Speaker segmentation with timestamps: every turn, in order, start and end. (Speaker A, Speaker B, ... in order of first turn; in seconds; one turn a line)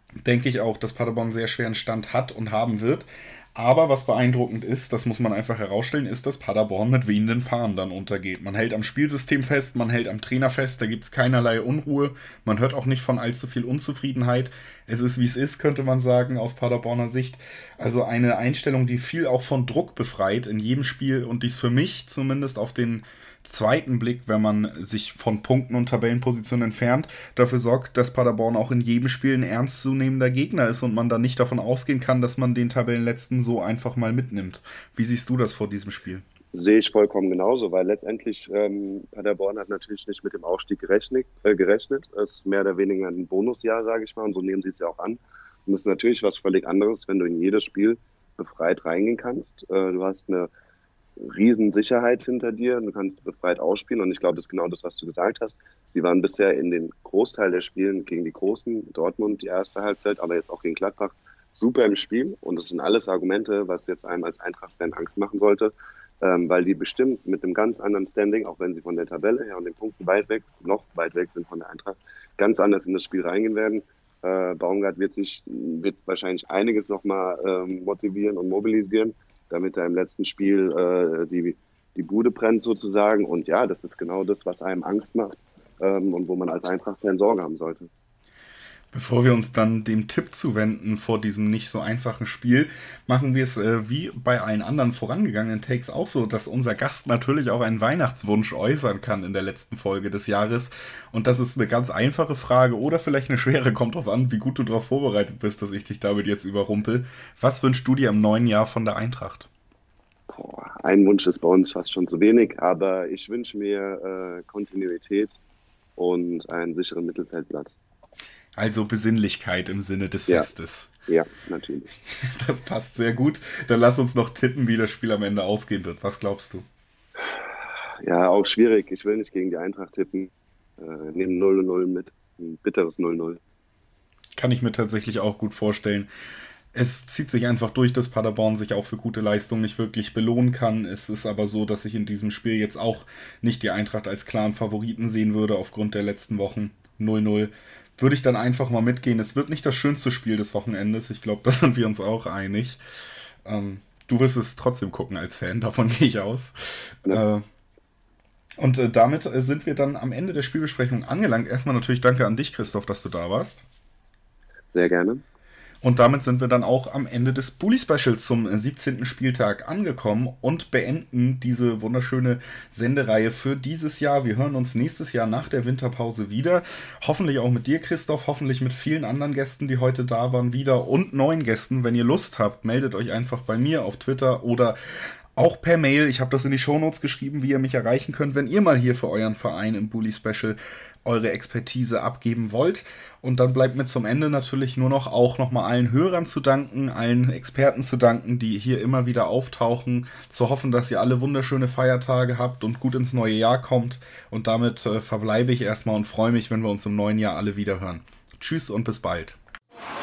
Speaker A: 0.2-36.2
Speaker B: 36.5-50.5
Speaker B: 51.2-87.9
Speaker A: 88.9-109.5
Speaker B: 110.3-115.4
Speaker B: 116.0-117.8
Speaker A: 118.6-120.9
Speaker B: 121.1-121.9
Speaker A: 122.3-126.7
Speaker B: 128.0-133.4
Speaker A: 134.4-136.1
Speaker A: 136.7-152.8
Speaker A: 153.5-156.5
Speaker A: 157.1-157.4
Speaker A: 158.6-163.6
Speaker B: 164.7-165.2
Speaker A: 165.8-184.8
Speaker A: 185.4-209.4